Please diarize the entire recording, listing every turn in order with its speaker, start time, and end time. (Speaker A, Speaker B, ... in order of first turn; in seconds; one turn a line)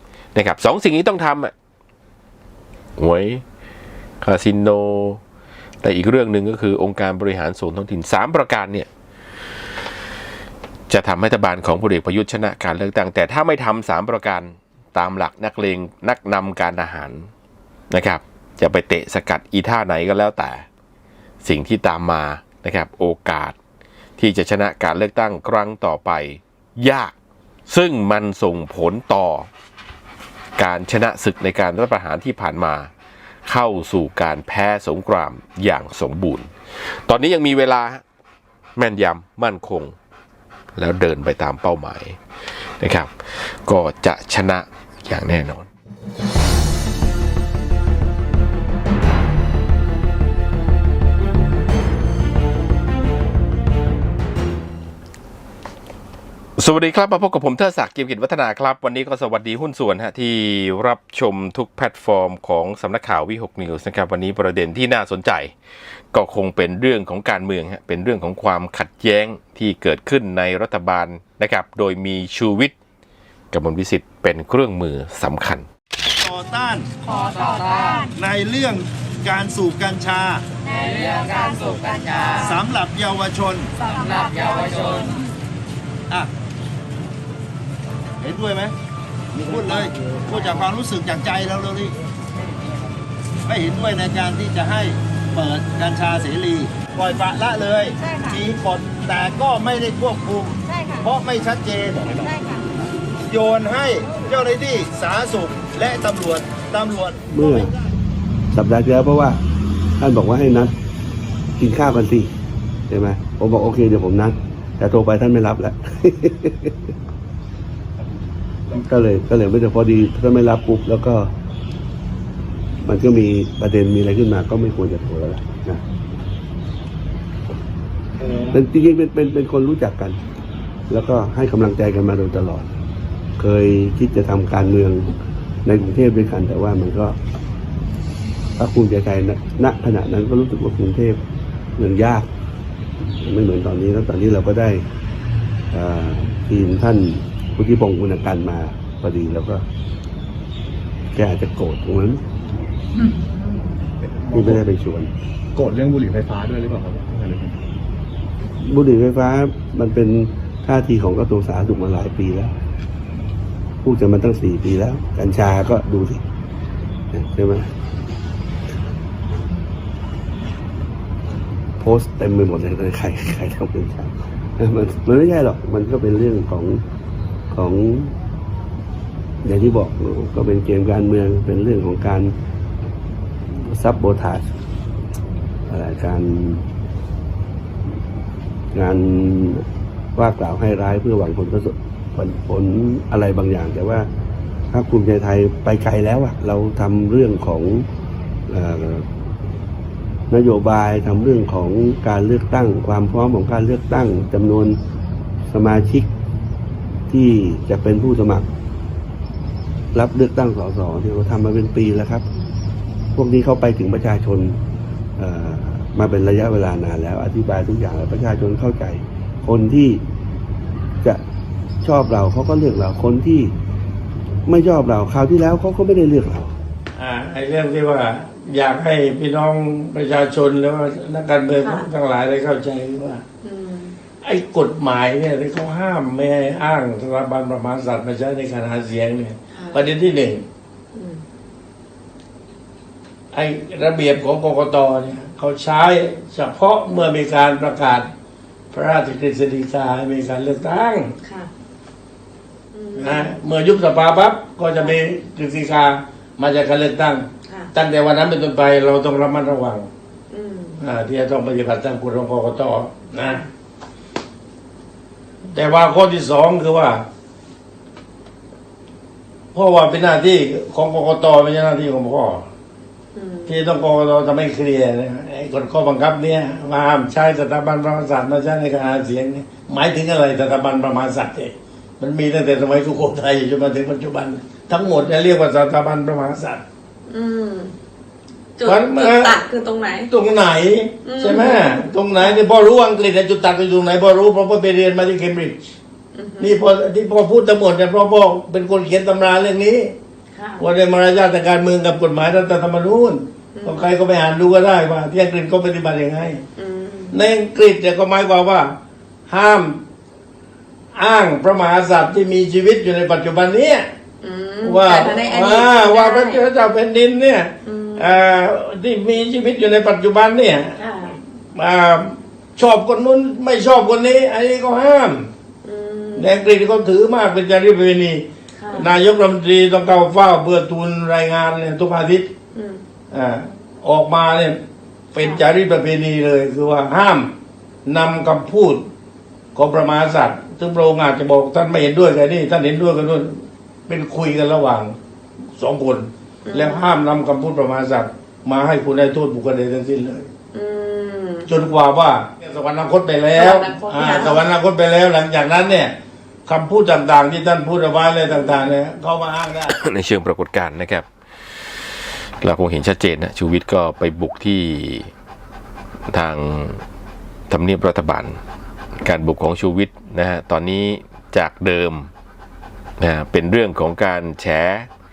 Speaker A: 0.3-1.5
Speaker A: 3.0-3.4
Speaker A: 4.2-5.2
Speaker A: 5.8-8.9
Speaker A: 10.9-17.3
Speaker A: 17.9-20.6
Speaker A: 21.4-23.6
Speaker A: 24.2-27.1
Speaker A: 27.7-29.5
Speaker A: 30.6-32.9
Speaker A: 33.5-38.0
Speaker A: 38.8-39.9
Speaker A: 40.8-42.2
Speaker A: 42.8-45.7
Speaker A: 56.6-65.5
Speaker A: 66.1-72.7
Speaker A: 73.5-75.7
Speaker B: 76.2-80.4
Speaker B: 81.0-85.1
Speaker B: 88.2-88.7
Speaker B: 89.3-92.0
Speaker B: 93.5-102.5
Speaker B: 103.2-107.2
Speaker C: 107.3-107.7
Speaker C: 108.5-109.4
Speaker C: 110.0-110.7
Speaker C: 111.6-112.3
Speaker C: 112.9-116.9
Speaker C: 118.7-121.3
Speaker C: 122.8-125.8
Speaker C: 128.4-130.2
Speaker C: 130.9-132.7
Speaker C: 133.4-137.2
Speaker C: 138.6-141.2
Speaker C: 141.8-142.3
Speaker C: 143.2-144.8
Speaker C: 145.7-149.7
Speaker C: 151.1-152.2
Speaker D: 154.1-154.6
Speaker C: 154.3-155.1
Speaker D: 155.5-157.6
Speaker C: 158.6-162.5
Speaker C: 163.8-166.2
Speaker C: 167.1-167.7
Speaker C: 171.8-176.8
Speaker C: 177.5-178.2
Speaker C: 179.4-182.3
Speaker C: 183.5-184.4
Speaker C: 185.7-186.7
Speaker C: 188.7-194.1
Speaker C: 194.7-197.9
Speaker C: 198.5-199.1
Speaker C: 200.3-204.8
Speaker C: 205.5-206.1
Speaker C: 207.1-208.5
Speaker C: 209.9-212.2
Speaker C: 213.1-214.6
Speaker C: 215.2-220.0
Speaker C: 221.8-223.5
Speaker C: 224.4-226.6
Speaker E: 227.0-233.2
Speaker F: 231.6-231.9
Speaker F: 233.4-233.9
Speaker E: 234.2-240.4
Speaker F: 239.5-239.8
Speaker F: 240.9-241.2
Speaker E: 243.3-248.1
Speaker E: 248.7-251.2
Speaker F: 251.2-251.5
Speaker F: 252.7-253.3
Speaker E: 252.9-259.9
Speaker F: 257.5-257.7
Speaker F: 260.3-260.8
Speaker E: 260.8-263.5
Speaker E: 265.5-267.0
Speaker E: 269.5-272.5
Speaker F: 273.1-273.6
Speaker E: 273.5-286.6
Speaker F: 287.1-287.7
Speaker F: 288.6-290.1
Speaker E: 288.6-289.4
Speaker E: 290.1-295.6
Speaker F: 291.0-292.4
Speaker F: 296.1-296.6
Speaker E: 296.4-299.9
Speaker F: 300.4-300.6
Speaker E: 300.6-306.4
Speaker F: 303.5-303.9
Speaker F: 306.6-307.2
Speaker E: 307.1-308.8
Speaker E: 309.3-309.8
Speaker E: 310.9-313.9
Speaker F: 314.2-316.4
Speaker E: 314.6-325.3
Speaker F: 317.6-318.1
Speaker F: 320.8-321.1
Speaker F: 325.6-326.3
Speaker E: 326.1-332.3
Speaker F: 328.6-328.9
Speaker F: 332.5-332.8
Speaker E: 333.1-334.6
Speaker E: 335.1-337.3
Speaker F: 335.2-335.4
Speaker E: 337.9-338.9
Speaker E: 339.5-345.0
Speaker E: 345.6-350.3
Speaker F: 346.4-346.9
Speaker F: 350.5-351.5
Speaker E: 351.5-355.9
Speaker F: 353.3-354.4
Speaker E: 356.5-359.7
Speaker A: 359.7-365.1
Speaker A: 366.1-366.8
Speaker A: 367.5-368.4
Speaker A: 369.0-372.1
Speaker A: 373.0-374.9